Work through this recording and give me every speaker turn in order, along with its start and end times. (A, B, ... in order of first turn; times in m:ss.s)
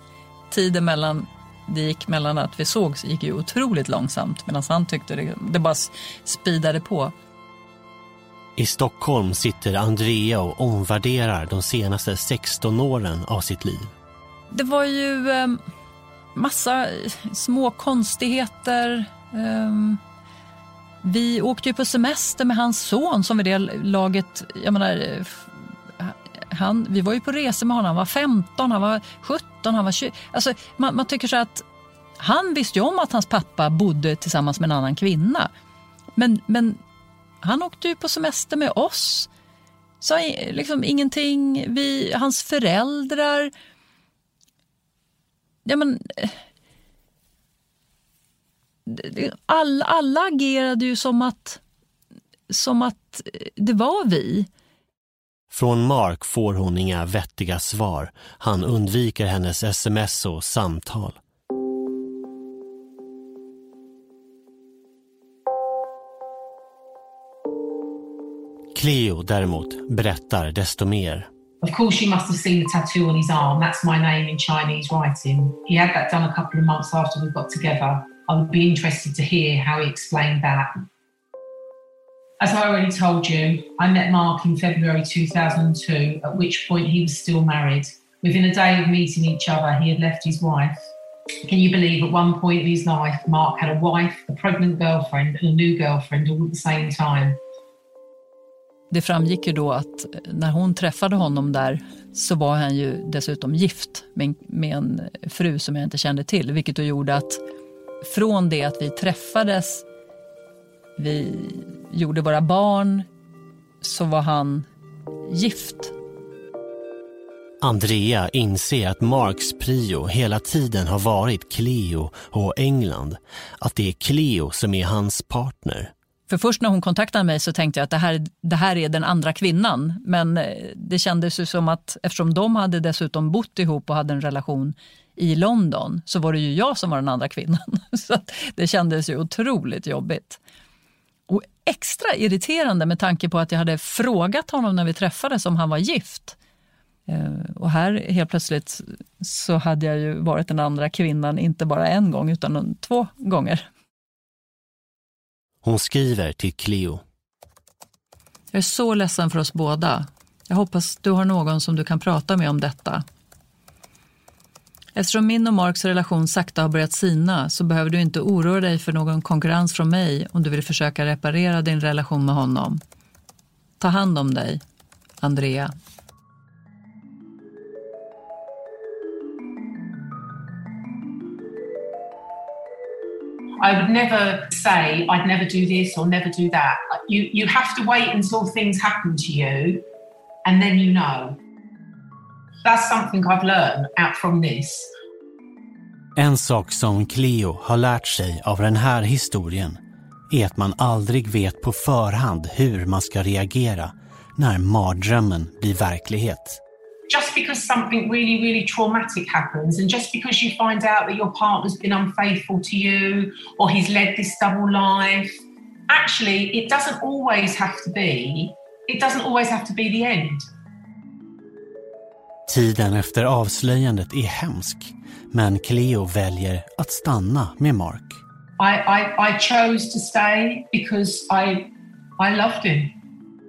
0:00.5-0:07.1 A
0:08.6-0:13.9 B
0:14.5-0:15.6 A
0:16.3-0:20.0 A
0:21.0-0:31.6 A
0:32.2-0:35.5 A
0:36.2-0:36.8 A
0:37.4-0:39.3 A
0:40.0-0:43.5 A
0:45.6-0:46.4 A
0:48.9-0:51.6 A
0:52.5-0:54.5 A
0:55.5-1:01.2 B
1:08.7-1:11.3 B
1:11.6-1:20.7 C
1:22.4-1:30.9 C
1:31.4-1:37.4 C
1:38.9-1:47.4 A
1:48.0-1:49.8 A
1:51.0-1:53.1 A
1:53.8-1:54.7 A
1:55.3-1:55.9 A
1:57.6-2:05.9 B
2:06.3-2:20.4 A
2:21.3-2:26.4 A
2:27.1-2:33.6 A
2:35.6-2:37.0 B
2:38.5-2:43.0 A
2:44.9-2:52.8 A
2:53.8-2:54.6 A
2:55.2-2:55.7 A
3:03.6-3:09.8 C
3:10.4-3:11.4 C
3:12.6-3:14.9 C
3:16.2-3:26.6 B
3:27.1-3:35.3 C
3:35.9-3:40.5 C
3:42.5-3:48.2 B
3:48.6-3:52.9 C